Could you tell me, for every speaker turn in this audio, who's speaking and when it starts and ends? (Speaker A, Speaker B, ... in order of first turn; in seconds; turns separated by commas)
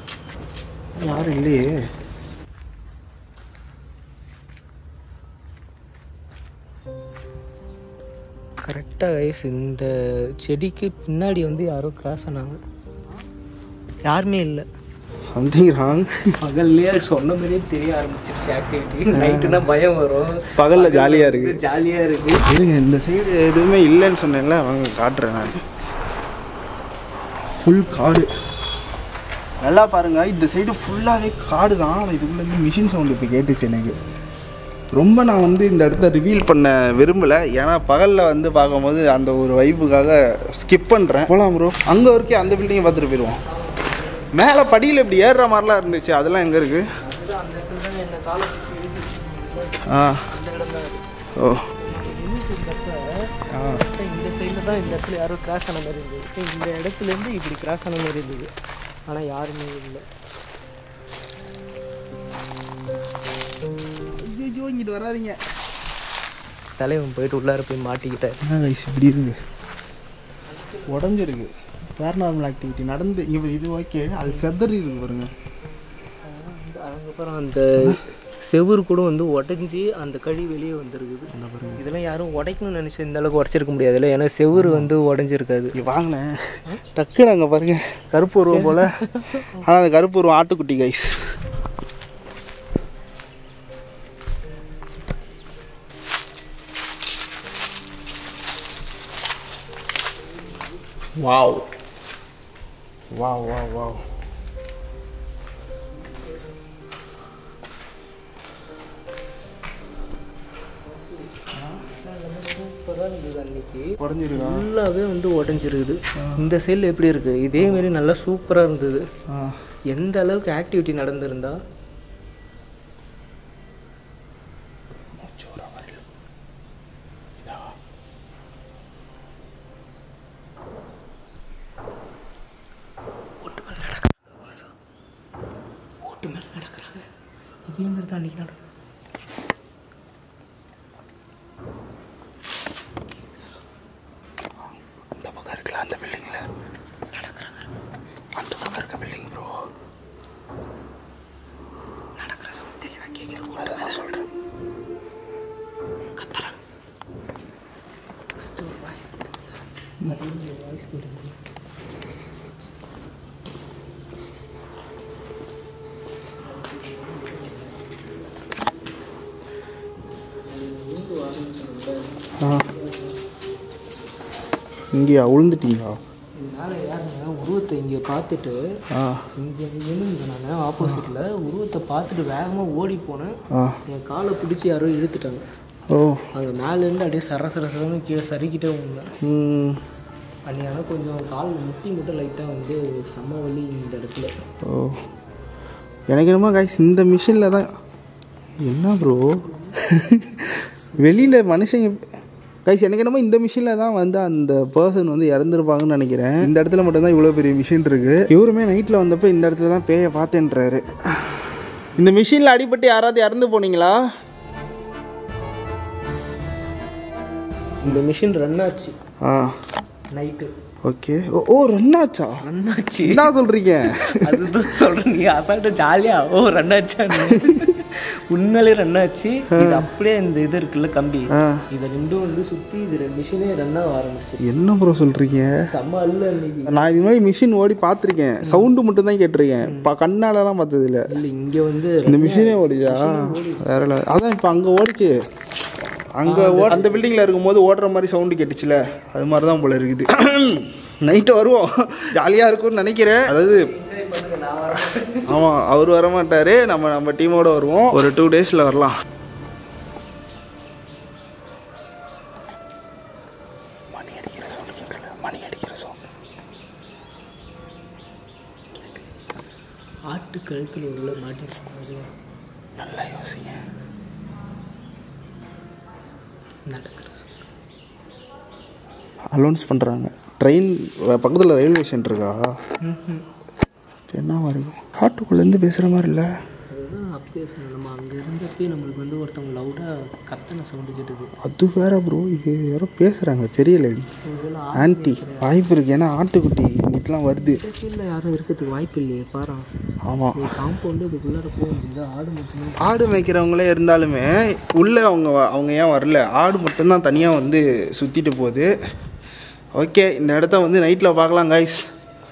Speaker A: 1.0-1.8, Speaker B: 8.6-12.6, Speaker B: 14.0-14.7, Speaker A: 15.3-16.2, Speaker B: 16.4-22.4, Speaker A: 19.1-19.6, Speaker A: 20.6-21.6, Speaker A: 22.4-25.6, Speaker A: 27.6-28.3, Speaker A: 29.6-34.0, Speaker A: 34.9-43.4, Speaker B: 43.5-44.3, Speaker A: 44.3-46.8, Speaker B: 47.0-51.0, Speaker A: 49.9-50.3, Speaker A: 51.4-51.6, Speaker B: 51.8-53.0, Speaker A: 53.5-53.8, Speaker B: 53.7-58.5, Speaker B: 59.1-60.0, Speaker A: 64.2-65.4, Speaker B: 66.8-68.4, Speaker A: 68.4-69.4, Speaker B: 70.5-71.0, Speaker A: 70.9-75.3, Speaker B: 76.2-85.7, Speaker A: 81.3-81.8, Speaker A: 84.5-84.9, Speaker A: 85.7-88.9, Speaker B: 88.5-89.6, Speaker A: 89.5-91.3, Speaker A: 101.2-101.7, Speaker A: 103.1-104.0, Speaker B: 110.9-119.1, Speaker A: 111.5-111.8, Speaker A: 114.0-114.7, Speaker A: 116.2-116.5, Speaker A: 117.6-117.8, Speaker A: 119.3-119.6, Speaker B: 119.9-121.6, Speaker A: 125.2-126.0, Speaker B: 133.4-134.6, Speaker B: 136.0-137.1, Speaker B: 137.7-138.6, Speaker A: 145.2-146.5, Speaker B: 147.1-147.7, Speaker A: 148.3-149.7, Speaker B: 152.2-154.1, Speaker A: 153.6-154.2, Speaker B: 156.2-156.6, Speaker B: 158.4-159.3, Speaker B: 160.0-161.3, Speaker B: 166.4-167.9, Speaker B: 170.4-173.2, Speaker A: 172.4-172.6, Speaker A: 174.9-176.0, Speaker B: 176.4-178.6, Speaker A: 178.9-179.2, Speaker B: 179.3-183.3, Speaker A: 180.8-181.1, Speaker A: 183.5-183.8, Speaker B: 183.9-185.4, Speaker A: 185.9-186.2, Speaker B: 186.3-189.1, Speaker A: 189.2-189.8, Speaker B: 190.5-194.3, Speaker A: 194.6-195.0, Speaker A: 196.1-197.7, Speaker A: 198.6-202.1, Speaker B: 199.5-199.7, Speaker A: 202.6-214.0, Speaker B: 217.8-218.9, Speaker A: 219.2-219.5, Speaker B: 220.1-220.5, Speaker A: 220.8-222.4, Speaker B: 222.4-223.3, Speaker A: 223.0-224.5, Speaker B: 223.9-234.6, Speaker A: 227.1-227.7, Speaker A: 229.5-229.9, Speaker A: 231.3-231.6, Speaker A: 234.4-235.6, Speaker B: 235.7-236.9, Speaker A: 236.7-241.1, Speaker B: 238.4-238.7, Speaker B: 239.6-239.9, Speaker B: 241.1-243.9, Speaker A: 242.1-245.2, Speaker A: 246.2-253.7, Speaker B: 246.2-247.1, Speaker B: 253.6-255.4, Speaker A: 255.2-258.9, Speaker A: 263.9-266.0, Speaker B: 270.1-272.1, Speaker A: 272.8-273.6, Speaker B: 276.7-277.5, Speaker A: 279.3-282.5, Speaker B: 282.8-283.2, Speaker A: 284.1-286.3, Speaker B: 286.7-291.3, Speaker A: 291.4-294.1, Speaker B: 294.2-295.6, Speaker A: 294.7-297.6, Speaker B: 297.4-299.7, Speaker A: 300.0-300.5, Speaker B: 300.4-302.9, Speaker A: 302.8-308.7, Speaker A: 309.7-311.9